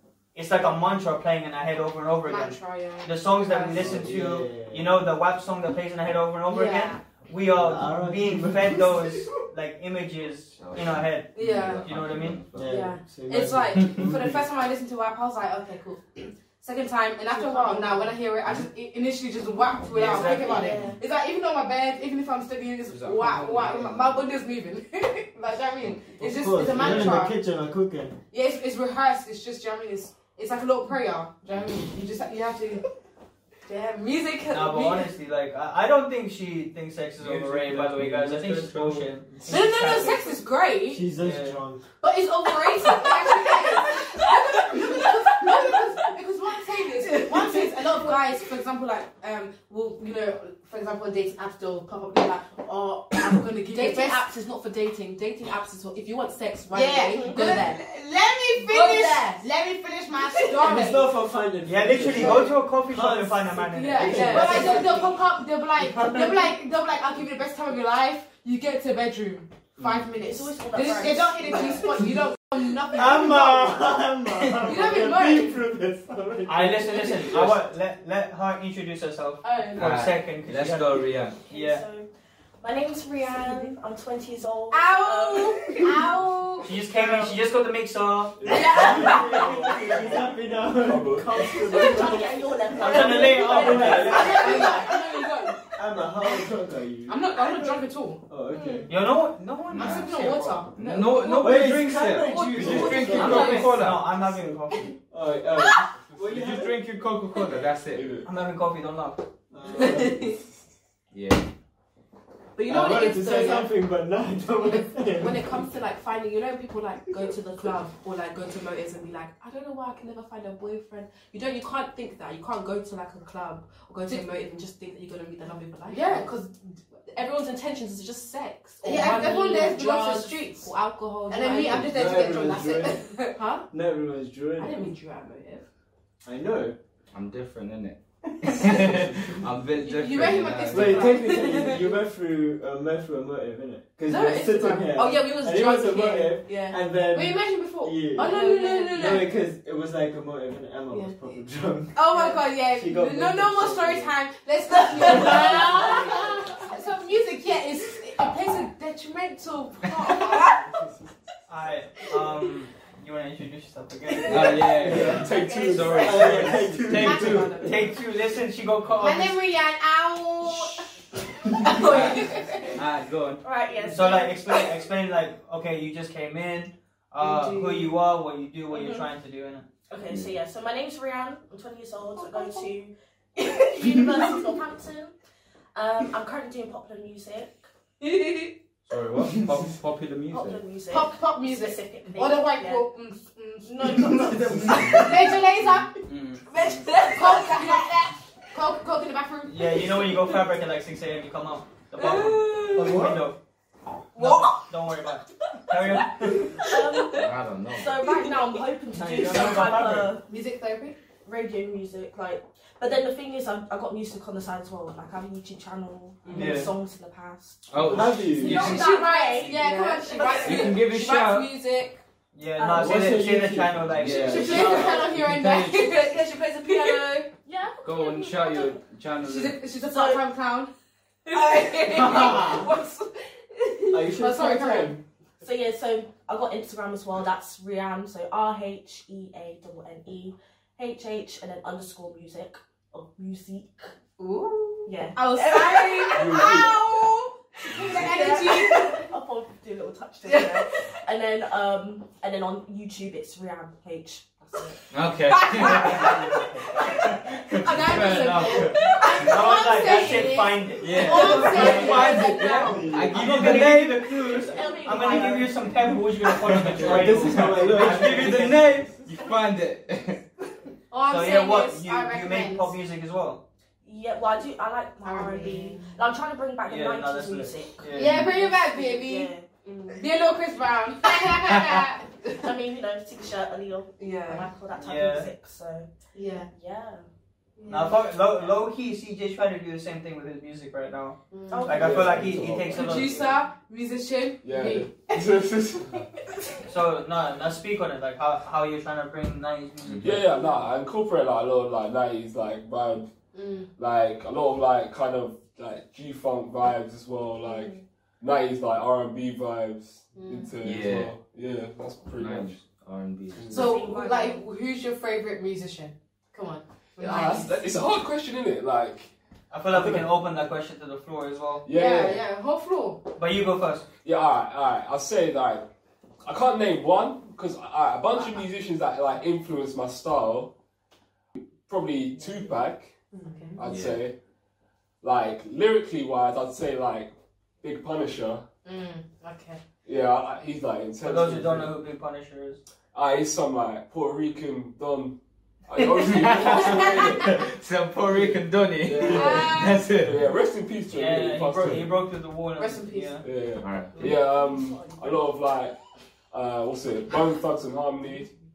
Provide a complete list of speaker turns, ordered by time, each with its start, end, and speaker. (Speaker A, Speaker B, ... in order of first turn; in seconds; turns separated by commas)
Speaker A: 0.3-12.4, Speaker B: 2.2-4.0, Speaker C: 3.7-4.9, Speaker B: 6.5-7.0, Speaker C: 7.5-9.2, Speaker D: 10.5-12.9, Speaker B: 11.3-11.8, Speaker C: 12.5-14.4, Speaker E: 12.6-13.0, Speaker B: 12.7-27.4, Speaker E: 17.4-18.1, Speaker A: 19.9-20.8, Speaker F: 20.1-21.0, Speaker D: 22.9-24.3, Speaker C: 26.2-28.2, Speaker B: 28.3-32.8, Speaker B: 33.7-35.0, Speaker A: 34.5-40.2, Speaker C: 37.3-40.2, Speaker B: 39.5-41.0, Speaker C: 40.9-41.8, Speaker A: 41.2-41.6, Speaker B: 42.0-54.2, Speaker E: 42.8-46.0, Speaker E: 47.0-48.4, Speaker E: 53.6-57.9, Speaker B: 56.7-61.1, Speaker F: 56.9-57.7, Speaker E: 58.7-59.4, Speaker F: 58.8-59.2, Speaker E: 60.3-60.9, Speaker C: 60.5-65.0, Speaker A: 61.6-64.8, Speaker B: 62.1-62.4, Speaker B: 63.7-73.7, Speaker E: 64.1-65.0, Speaker F: 64.4-65.2, Speaker C: 65.8-66.5, Speaker C: 69.8-70.0, Speaker F: 70.1-72.0, Speaker E: 70.8-71.6, Speaker C: 72.9-77.5, Speaker A: 73.0-74.7, Speaker B: 74.6-75.6, Speaker A: 76.5-81.8, Speaker B: 79.4-79.9, Speaker D: 79.8-81.4, Speaker F: 81.5-82.1, Speaker F: 82.6-85.9, Speaker B: 84.7-86.7, Speaker A: 86.6-89.8, Speaker C: 86.9-87.3, Speaker G: 88.4-92.3, Speaker C: 88.4-94.6, Speaker E: 88.5-89.4, Speaker F: 91.6-94.8, Speaker A: 92.8-94.8, Speaker B: 94.1-95.6, Speaker E: 94.1-95.1, Speaker C: 95.7-99.0, Speaker B: 96.2-96.5, Speaker B: 97.0-98.2, Speaker E: 98.5-98.8, Speaker A: 98.9-100.6, Speaker D: 99.7-104.0, Speaker B: 99.7-101.4, Speaker E: 100.8-103.7, Speaker C: 101.3-103.7, Speaker B: 102.3-103.5, Speaker G: 102.5-103.5, Speaker A: 103.1-104.9, Speaker C: 105.1-106.8, Speaker G: 106.0-106.5, Speaker D: 106.3-108.0, Speaker G: 107.9-108.3, Speaker A: 108.2-109.2, Speaker C: 109.5-110.3, Speaker E: 109.8-110.4, Speaker D: 111.1-111.5, Speaker E: 112.5-113.8, Speaker C: 112.6-115.7, Speaker E: 114.7-126.4, Speaker B: 124.1-124.3, Speaker B: 125.9-126.7, Speaker E: 127.0-132.5, Speaker B: 128.8-130.7, Speaker B: 131.3-133.6, Speaker C: 131.7-134.9, Speaker E: 133.3-133.6, Speaker E: 134.6-135.7, Speaker C: 136.2-136.8, Speaker D: 137.1-141.2, Speaker C: 138.4-139.4, Speaker B: 139.8-141.9, Speaker C: 140.7-148.4, Speaker E: 141.1-141.9, Speaker E: 144.0-146.8, Speaker B: 147.1-149.3, Speaker E: 148.1-149.3, Speaker C: 148.9-154.2, Speaker B: 151.9-160.6, Speaker E: 152.1-152.4, Speaker C: 154.9-156.4, Speaker E: 155.0-156.3, Speaker G: 160.6-161.0, Speaker A: 161.5-164.9, Speaker D: 164.2-167.5, Speaker C: 164.7-167.5, Speaker G: 164.8-166.8, Speaker E: 165.2-166.3, Speaker B: 167.0-167.8, Speaker E: 167.0-167.9, Speaker A: 167.1-169.4, Speaker B: 169.0-170.9, Speaker B: 171.5-172.7, Speaker D: 171.8-173.4, Speaker E: 171.9-172.4, Speaker F: 173.4-174.7, Speaker A: 173.9-179.7, Speaker E: 177.2-177.8, Speaker F: 178.7-179.1, Speaker F: 179.9-185.1, Speaker D: 180.1-180.3, Speaker E: 182.2-182.7, Speaker F: 185.7-187.7, Speaker E: 188.0-188.5, Speaker D: 188.9-190.6, Speaker F: 190.3-192.9, Speaker B: 190.9-195.9, Speaker F: 193.7-195.3, Speaker E: 196.5-198.0, Speaker F: 196.5-197.8, Speaker B: 197.1-200.0, Speaker A: 199.5-203.4, Speaker E: 201.9-203.0, Speaker C: 202.7-203.3, Speaker E: 204.2-204.6, Speaker A: 204.2-206.6, Speaker E: 206.4-207.2, Speaker F: 206.6-210.3, Speaker D: 207.1-207.9, Speaker E: 208.0-208.4, Speaker A: 208.9-210.1, Speaker C: 208.9-210.1, Speaker B: 210.3-210.9, Speaker F: 211.2-220.7, Speaker E: 216.2-216.6, Speaker A: 216.3-216.7, Speaker D: 217.7-218.8, Speaker C: 217.8-218.7, Speaker B: 218.4-221.8, Speaker E: 218.4-222.0, Speaker D: 220.4-221.5, Speaker A: 222.3-224.9, Speaker F: 222.6-223.3, Speaker C: 222.7-225.3, Speaker D: 223.9-226.1, Speaker B: 224.3-226.1, Speaker E: 224.6-227.3, Speaker F: 227.4-228.8, Speaker D: 227.8-229.6, Speaker B: 229.2-230.7, Speaker F: 229.8-230.2, Speaker E: 231.3-234.2, Speaker F: 232.0-232.3, Speaker C: 233.9-235.0, Speaker B: 234.2-235.0, Speaker F: 235.4-243.9, Speaker B: 244.2-249.1, Speaker F: 244.8-246.8, Speaker G: 246.1-246.8, Speaker F: 247.7-254.7, Speaker D: 254.9-256.3, Speaker B: 255.4-256.1, Speaker E: 255.4-256.0, Speaker D: 257.4-259.0, Speaker B: 257.6-262.9, Speaker E: 257.9-260.3, Speaker A: 258.2-258.6, Speaker A: 259.1-262.2, Speaker D: 260.8-264.1, Speaker E: 260.9-262.6, Speaker C: 261.6-264.3, Speaker A: 263.1-268.9, Speaker F: 264.2-265.6, Speaker C: 264.9-265.5, Speaker C: 266.5-268.8, Speaker D: 266.6-270.2, Speaker G: 266.8-267.2, Speaker B: 270.9-272.7, Speaker A: 271.1-273.4, Speaker F: 273.8-279.9, Speaker B: 275.0-275.9, Speaker A: 276.6-278.3, Speaker B: 277.9-279.3, Speaker E: 279.7-279.9, Speaker B: 279.9-282.4, Speaker F: 282.4-285.9, Speaker E: 284.0-284.4, Speaker B: 284.0-284.4, Speaker A: 284.7-285.3, Speaker B: 286.1-286.5, Speaker F: 286.4-287.1, Speaker B: 287.6-288.0, Speaker A: 287.7-293.4, Speaker B: 291.3-291.9, Speaker F: 291.5-292.2, Speaker G: 291.7-293.2, Speaker B: 292.7-294.9, Speaker G: 294.4-296.1, Speaker A: 296.7-300.3, Speaker G: 300.0-303.1, Speaker B: 303.3-303.7, Speaker G: 303.8-312.6, Speaker F: 307.4-307.7, Speaker B: 310.1-310.5, Speaker D: 310.6-311.1, Speaker D: 312.2-313.7, Speaker G: 313.3-313.7, Speaker F: 313.5-314.4, Speaker B: 313.5-317.5, Speaker G: 317.0-319.1, Speaker A: 319.5-321.6, Speaker G: 319.7-320.1, Speaker G: 321.6-322.2, Speaker B: 321.7-323.0, Speaker A: 323.1-323.9, Speaker G: 324.0-325.7, Speaker G: 326.2-330.5, Speaker G: 331.3-332.9, Speaker E: 333.1-333.6, Speaker B: 333.2-333.6, Speaker G: 333.6-334.1, Speaker D: 333.6-334.0, Speaker G: 335.0-338.4, Speaker B: 338.6-339.6, Speaker G: 339.8-341.8, Speaker A: 341.0-342.6, Speaker G: 342.9-347.4, Speaker D: 346.0-350.2, Speaker B: 346.5-347.1, Speaker G: 348.1-351.9, Speaker B: 349.1-349.8, Speaker A: 350.9-353.2, Speaker B: 352.6-353.2, Speaker G: 353.2-355.8, Speaker D: 353.6-354.0, Speaker G: 356.3-358.3